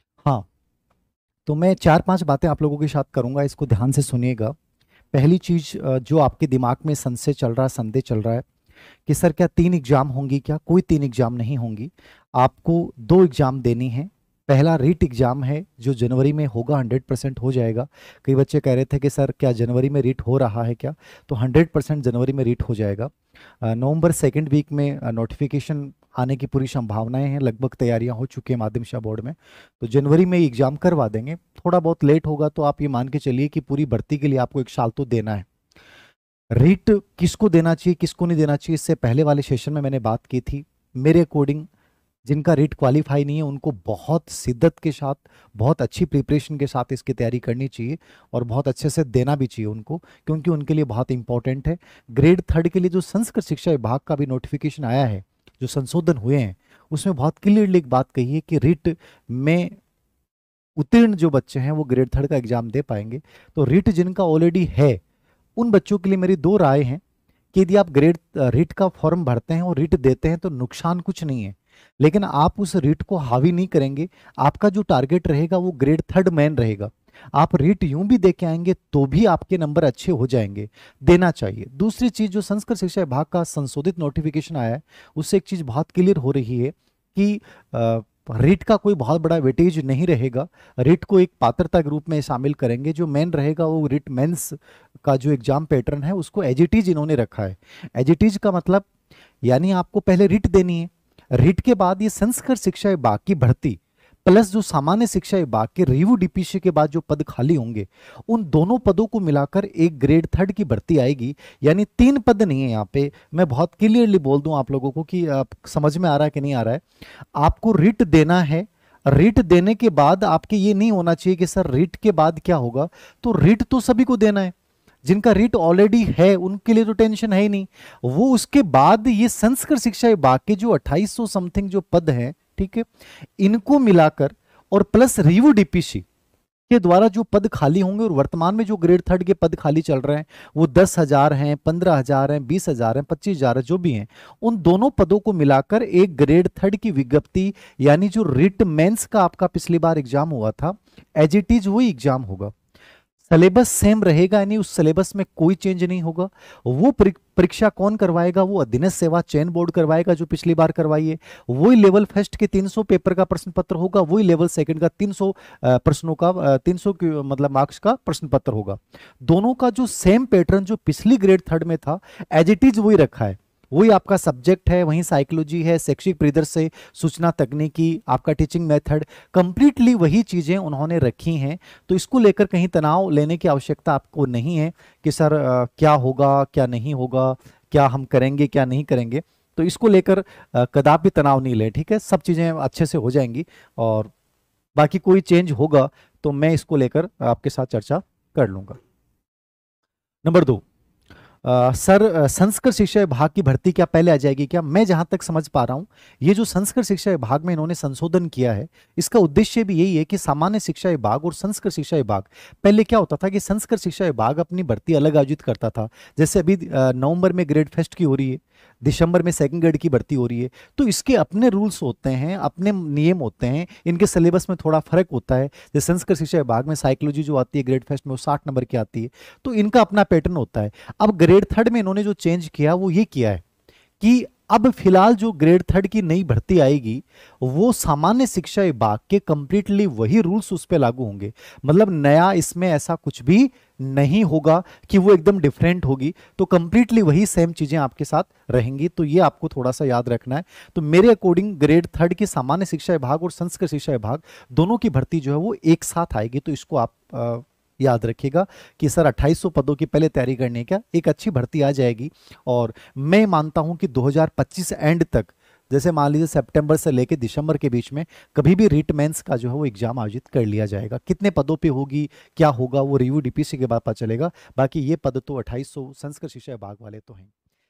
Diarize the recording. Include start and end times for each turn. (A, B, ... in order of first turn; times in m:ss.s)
0:01.4-0:04.5 A
0:05.1-0:08.4 A
0:09.1-0:35.4 A
0:36.5-0:41.7 A
0:42.2-0:59.7 A
1:00.8-1:05.0 A
1:05.6-1:07.0 A
1:07.5-1:38.8 A
1:39.4-1:56.8 A
1:57.4-2:04.5 A
2:05.0-2:12.8 A
2:13.4-2:16.0 A
2:16.7-2:32.5 A
2:33.3-3:14.1 A
3:14.8-3:18.8 A
3:20.2-3:20.6 A
3:21.4-3:53.4 A
3:54.0-4:37.3 A